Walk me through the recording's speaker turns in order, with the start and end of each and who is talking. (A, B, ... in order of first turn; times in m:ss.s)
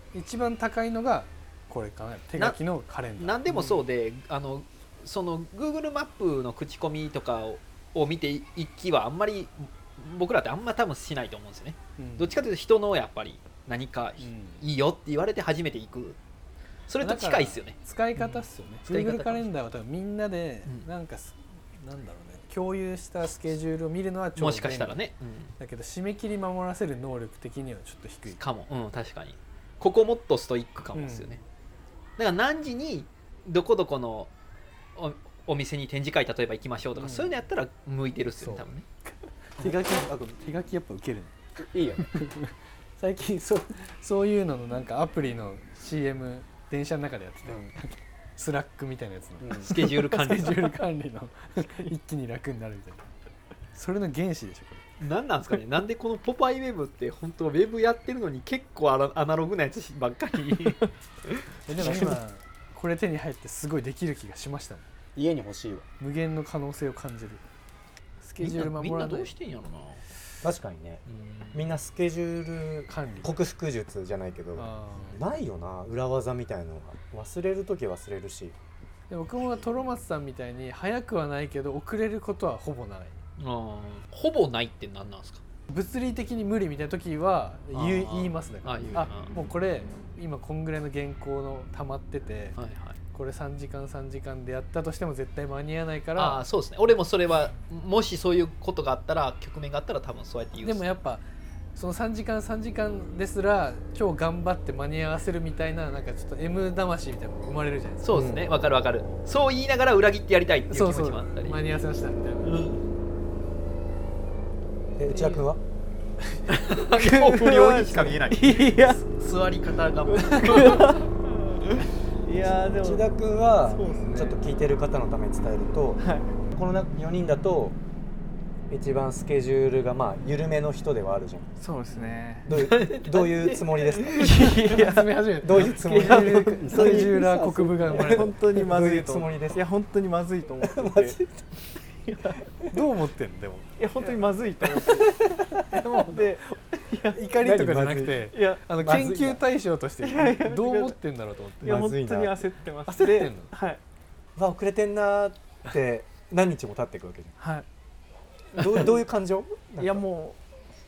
0:00.1-0:03.8 A
0:03.2-0:16.2 B
0:12.0-0:12.4 A
0:14.2-0:14.6 A
0:16.9-0:19.5 B
0:17.0-0:25.0 A
0:24.4-0:25.5 B
0:25.6-0:28.4 A
0:28.4-0:31.4 B
0:30.9-0:31.4 A
0:32.2-0:34.3 B
0:35.0-0:38.8 B
0:37.0-0:37.4 A
0:38.4-0:38.7 A
0:39.6-0:41.4 A
0:42.1-0:53.1 A
0:49.6-0:50.8 B
0:53.7-0:54.8 A
0:55.0-1:02.1 B
1:01.7-1:04.8 A
1:05.2-1:05.8 C
1:06.0-1:07.4 A
1:08.2-1:09.3 A
1:08.4-1:10.0 B
1:10.4-1:18.6 C
1:11.1-1:11.7 B
1:12.9-1:13.3 A
1:14.6-1:15.2 A
1:19.1-1:23.2 A
1:23.4-1:25.4 B
1:25.7-1:36.4 A
1:27.7-1:29.4 B
1:32.6-1:33.0 B
1:36.2-1:40.8 B
1:40.6-1:41.2 A
1:41.8-1:48.3 A
1:48.0-1:51.6 B
1:48.1-1:48.5 C
1:50.7-1:52.6 A
1:52.4-1:52.8 B
1:55.0-1:55.6 C
1:55.1-1:55.4 D
1:56.5-2:01.1 B
1:56.9-1:59.0 D
2:00.1-2:01.1 D
2:02.3-2:03.0 D
2:02.4-2:06.0 C
2:03.6-2:04.4 D
2:06.0-2:06.3 D
2:06.5-2:07.8 C
2:08.7-2:11.5 C
2:11.6-2:12.5 D
2:12.3-2:14.3 C
2:12.5-2:14.2 B
2:14.2-2:17.1 D
2:14.6-2:18.4 A
2:15.4-2:19.6 C
2:18.0-2:21.2 D
2:20.6-2:21.5 C
2:22.1-2:22.4 D
2:22.7-2:23.7 A
2:23.8-2:25.2 D
2:24.8-2:25.8 C
2:25.7-2:27.2 D
2:27.1-2:31.9 A
2:27.4-2:28.2 C
2:28.3-2:28.6 D
2:28.8-2:29.4 C
2:30.0-2:31.0 D
2:31.6-2:33.8 D
2:31.6-2:32.3 C
2:32.9-2:33.5 A
2:34.4-2:37.3 C
2:37.4-2:37.7 D
2:38.5-2:40.0 C
2:38.6-2:38.9 B
2:39.8-2:40.4 D